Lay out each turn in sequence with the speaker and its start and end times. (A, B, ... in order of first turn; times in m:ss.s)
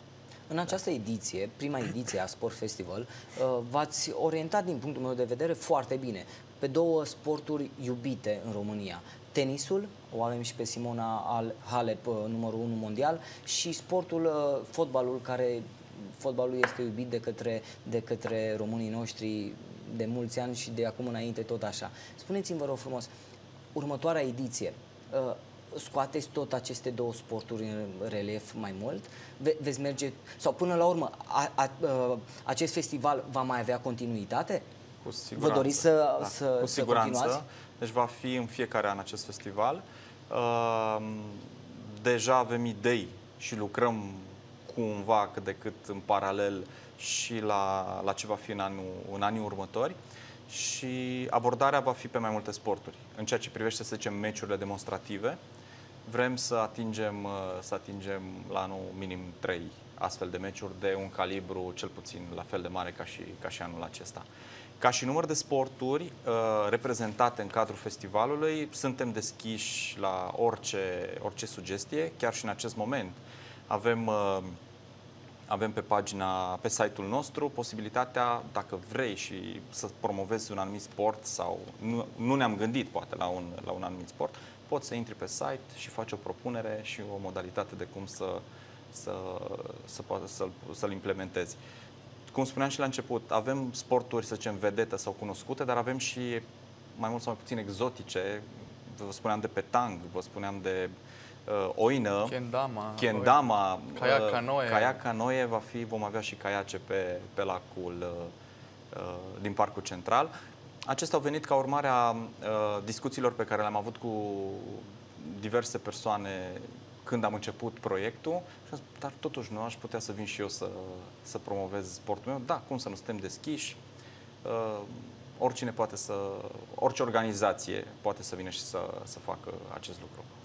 0:00.5-0:23.1 A
0:23.8-0:34.7 A
0:35.0-0:50.0 B
0:35.4-0:37.4 A
0:50.5-0:55.4 B
0:56.1-1:04.2 B
1:04.8-1:14.6 B
1:15.5-1:31.6 B
1:32.3-1:40.9 B
1:41.5-1:42.4 B
1:42.3-1:45.0 C
1:43.0-1:48.3 B
1:48.9-1:50.3 B
1:50.8-2:03.8 B
2:04.4-2:10.3 B